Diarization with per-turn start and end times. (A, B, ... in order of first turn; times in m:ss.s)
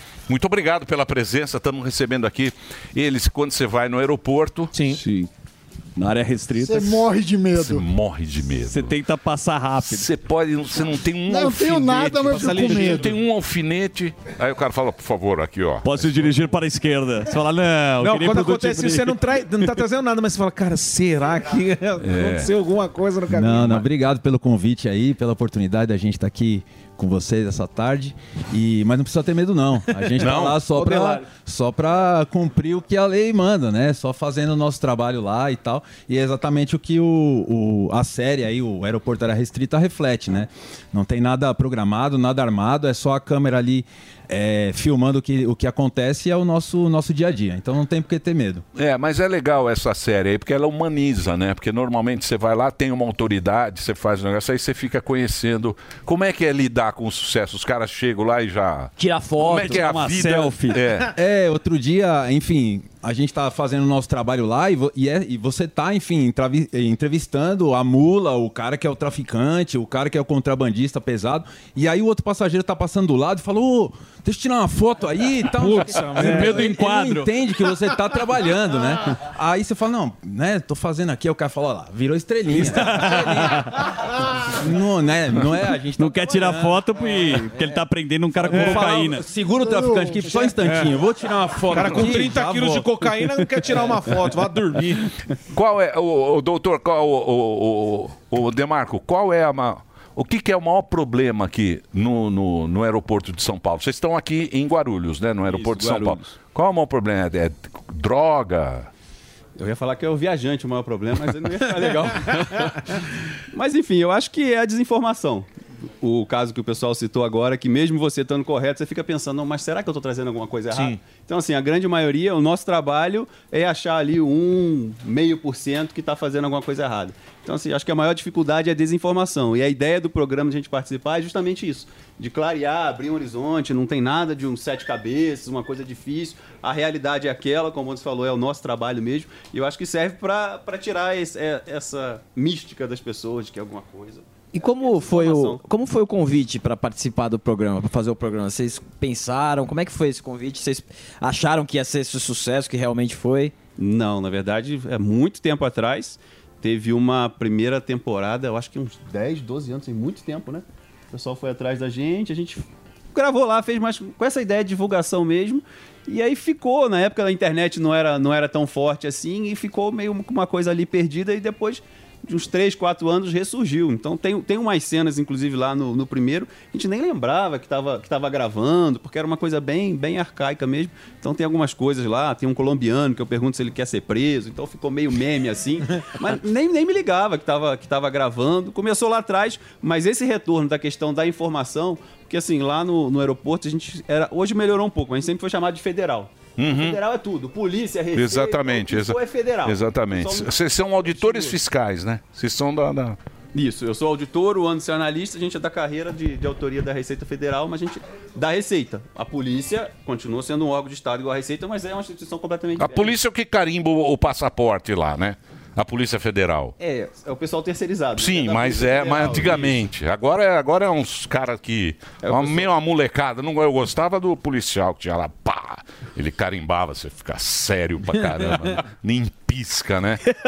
0:00.3-0:04.7 A
0:04.9-0:05.3 B
0:06.0-0:07.0 B
0:06.6-0:07.8 C
0:07.6-0:08.9 A
0:08.7-0:10.1 B
0:09.8-0:16.1 A
0:11.3-0:13.1 C
0:15.8-0:19.2 B
0:18.0-0:23.9 D
0:22.0-0:22.5 A
0:23.3-0:48.6 E
0:30.2-0:30.6 A
0:48.7-1:01.1 A
0:59.0-1:00.8 B
1:01.1-1:23.4 E
1:15.5-1:16.7 D
1:16.2-1:17.3 B
1:22.5-1:23.6 B
1:24.5-1:26.9 E
1:26.0-1:29.3 B
1:28.5-1:32.5 E
1:28.5-1:29.1 D
1:29.3-1:30.3 C
1:31.7-1:35.0 D
1:31.7-1:32.8 B
1:35.5-1:48.9 A
1:45.5-1:46.2 B
1:49.6-1:52.7 F
1:53.5-1:55.5 F
1:56.0-2:24.2 F
2:24.5-2:33.5 G
2:24.9-2:25.6 F
2:33.8-3:20.5 F
3:16.6-3:17.0 A
3:18.1-3:23.2 A
3:21.1-3:21.6 F
3:23.5-3:33.1 F
3:32.8-3:36.7 A
3:36.8-3:39.8 F
3:38.2-3:50.2 A